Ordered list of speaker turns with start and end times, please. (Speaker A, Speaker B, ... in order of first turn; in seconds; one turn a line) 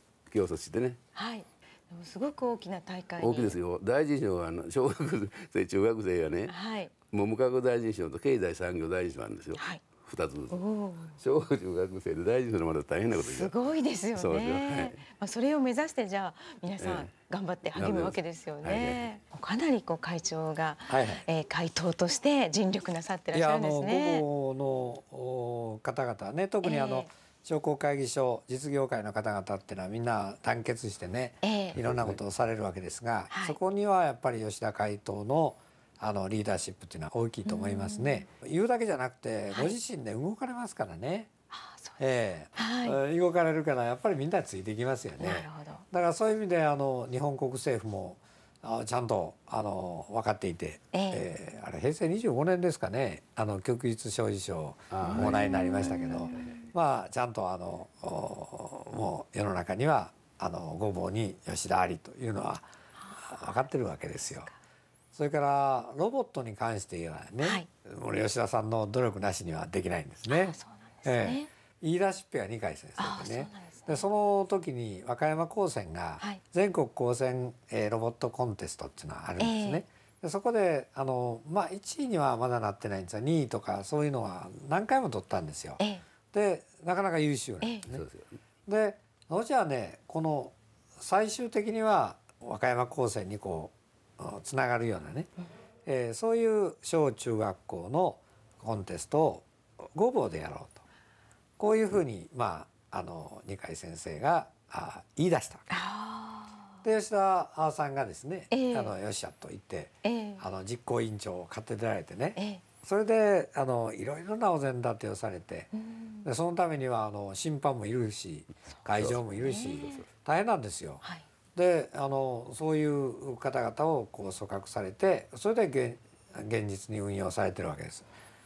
Speaker A: 0.3-1.0
Speaker B: 1.1-3.6
Speaker A: 3.2-6.5
Speaker B: 6.5-6.9
Speaker A: 7.1-10.6
Speaker B: 10.5-11.2
Speaker A: 11.2-13.5
Speaker B: 13.2-24.2
Speaker A: 14.1-15.0
Speaker A: 16.8-17.1
Speaker A: 17.8-19.1
Speaker C: 20.9-21.2
Speaker C: 23.3-41.3
Speaker B: 26.6-27.1
Speaker B: 31.4-31.8
Speaker A: 31.7-32.2
Speaker B: 33.3-33.6
Speaker B: 37.4-38.2
Speaker B: 41.5-42.0
Speaker C: 42.0-64.5
Speaker B: 42.5-43.0
Speaker B: 45.2-45.8
Speaker B: 50.9-51.2
Speaker A: 54.9-56.5
Speaker B: 55.0-56.6
Speaker B: 63.0-63.5
Speaker C: 65.1-85.8
Speaker B: 67.4-67.7
Speaker B: 70.3-71.5
Speaker B: 73.0-74.0
Speaker B: 79.4-79.8
Speaker B: 85.8-86.0
Speaker C: 86.3-88.0
Speaker A: 87.9-88.3
Speaker C: 88.7-95.3
Speaker C: 95.8-100.8
Speaker C: 101.6-105.7
Speaker B: 105.7-106.8
Speaker C: 106.8-115.7
Speaker B: 108.5-108.9
Speaker B: 110.0-110.4
Speaker B: 112.3-112.6
Speaker B: 115.7-116.2
Speaker C: 116.2-121.0
Speaker A: 119.0-120.0
Speaker B: 119.4-120.0
Speaker C: 121.5-128.1